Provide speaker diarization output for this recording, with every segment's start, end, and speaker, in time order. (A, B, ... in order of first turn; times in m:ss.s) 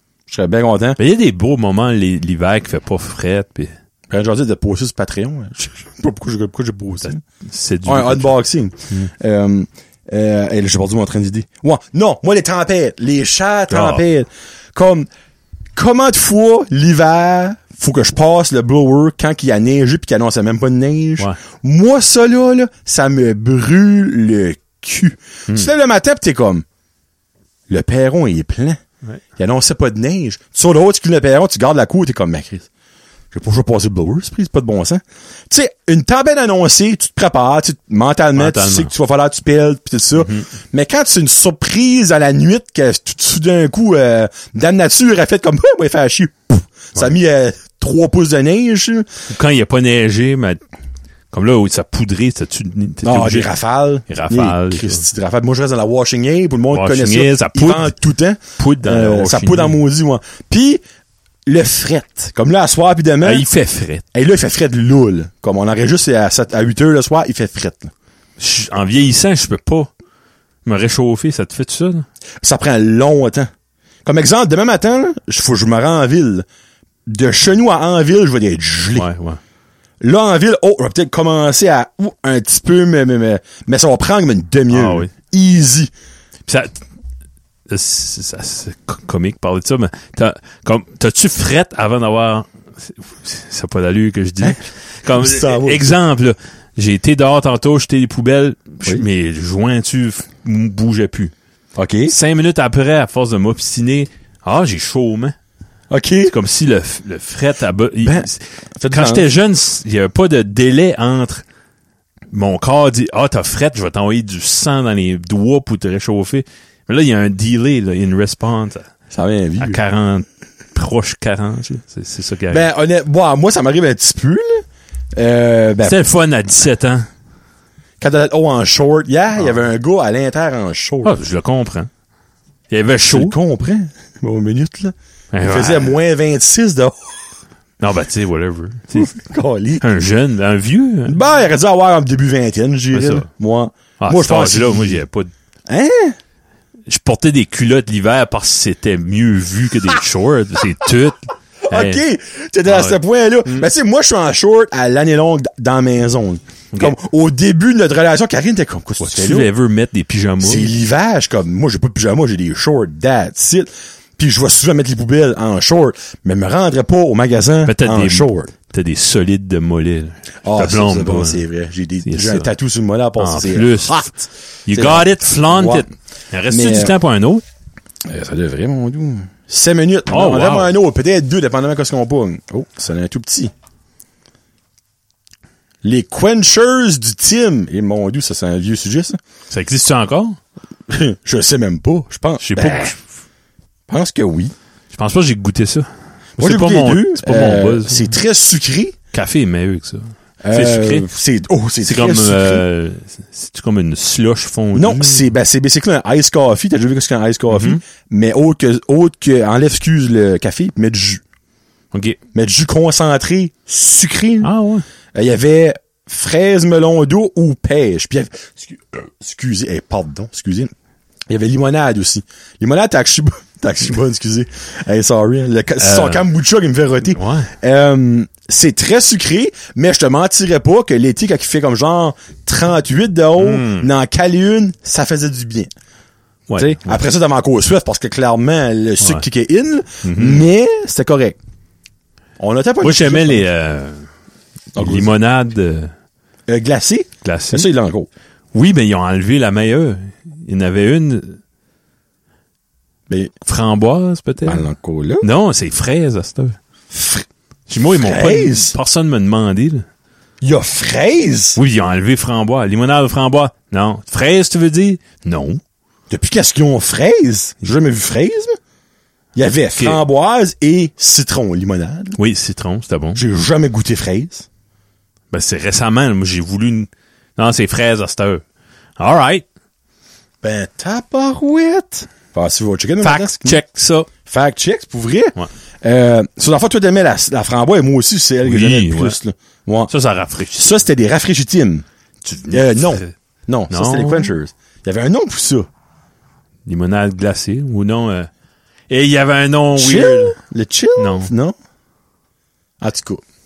0:00.3-0:01.0 A
0:01.0-0:03.7 B
0:04.1-0:07.2 A
0:07.0-0:08.4 B
0:07.9-0:15.1 A
0:13.7-0:14.0 B
0:15.8-0:26.6 A
0:27.7-0:28.8 A
0:29.4-0:32.7 A
0:33.3-0:49.1 A
0:38.4-0:38.9 B
0:40.2-0:40.5 B
0:49.3-0:50.6 B
0:51.3-0:53.5 B
0:53.0-1:00.8 A
0:54.1-0:55.0 B
0:56.7-0:57.9 B
0:58.6-0:59.8 B
1:01.5-1:03.5 A
1:03.2-1:04.0 B
1:04.1-1:07.9 A
1:08.4-1:09.9 B
1:10.6-1:12.1 B
1:12.4-1:13.5 A
1:14.0-1:16.4 A
1:17.1-1:19.1 A
1:18.9-1:19.4 B
1:20.0-1:25.9 A
1:24.7-1:25.1 B
1:26.5-1:26.8 B
1:27.7-1:41.3 B
1:35.1-1:35.9 A
1:41.8-1:42.1 A
1:42.1-1:45.4 B
1:45.9-1:46.3 A
1:46.3-1:51.4 B
1:48.0-1:49.3 A
1:52.3-1:58.9 B
1:59.1-1:59.8 A
1:59.6-2:02.7 B
2:02.5-2:04.6 A
2:05.2-2:06.0 A
2:05.8-2:07.1 B
2:08.0-2:11.2 A
2:11.0-2:11.9 B
2:12.7-2:13.4 B
2:13.1-2:17.1 A
2:15.3-2:16.0 B
2:17.8-2:19.1 B
2:19.0-2:19.8 A
2:19.8-2:21.2 B
2:21.1-2:25.0 A
2:22.9-2:23.3 B
2:24.0-2:25.3 B
2:25.7-2:26.2 A
2:26.9-2:32.0 B
2:31.6-2:39.5 A
2:32.7-2:33.7 B
2:39.0-2:40.7 B
2:40.4-2:48.5 A
2:47.6-2:51.4 B
2:50.4-2:55.9 A
2:52.0-2:52.5 B
2:53.2-2:54.1 B
2:54.7-2:57.4 B
2:56.5-2:56.9 A
2:58.1-3:03.5 A
3:00.1-3:00.7 B
3:05.8-3:09.2 A
3:09.5-3:10.4 B
3:10.9-3:13.0 A
3:12.4-3:13.0 B
3:13.9-3:14.5 A
3:14.9-3:18.2 B
3:16.4-3:19.0 A
3:19.1-3:21.1 B
3:20.4-3:22.6 A
3:21.8-3:25.3 B
3:24.7-3:31.2 A
3:27.5-3:27.8 B
3:31.9-3:32.2 B
3:32.3-3:34.5 A
3:34.4-3:34.8 B
3:35.2-3:40.7 A
3:41.3-3:55.7 A
3:45.8-3:46.3 B
3:47.1-3:47.5 B
3:53.4-3:53.9 B
3:56.5-3:57.0 B
3:56.6-4:01.4 A
3:59.0-3:59.2 B
4:00.0-4:00.5 B
4:02.4-4:03.5 A
4:02.8-4:04.1 B
4:04.8-4:05.1 A
4:04.8-4:05.9 B
4:06.5-4:08.1 A
4:07.2-4:07.7 B
4:08.5-4:11.4 B
4:13.4-4:14.6 B
4:14.4-4:15.3 A
4:15.2-4:16.6 B
4:16.9-4:17.3 A
4:17.7-4:19.9 B
4:17.9-4:18.8 A
4:20.4-4:21.6 A
4:21.6-4:25.6 B
4:26.1-4:28.6 A
4:29.4-4:32.2 A
4:29.8-4:30.0 B
4:32.2-4:33.2 B
4:33.2-4:34.5 A
4:35.3-4:38.4 B
4:39.0-4:39.4 B
4:40.4-4:43.6 A
4:43.0-4:44.1 B
4:44.2-4:49.9 A
4:48.4-4:49.2 B
4:49.9-4:50.8 B
4:50.6-4:51.8 A
4:52.2-4:53.1 B
4:52.5-4:55.7 A
4:53.7-4:54.3 B
4:56.7-4:58.3 B
4:58.9-5:00.4 B
4:59.8-5:01.6 A
5:01.0-5:01.3 B
5:02.8-5:03.2 A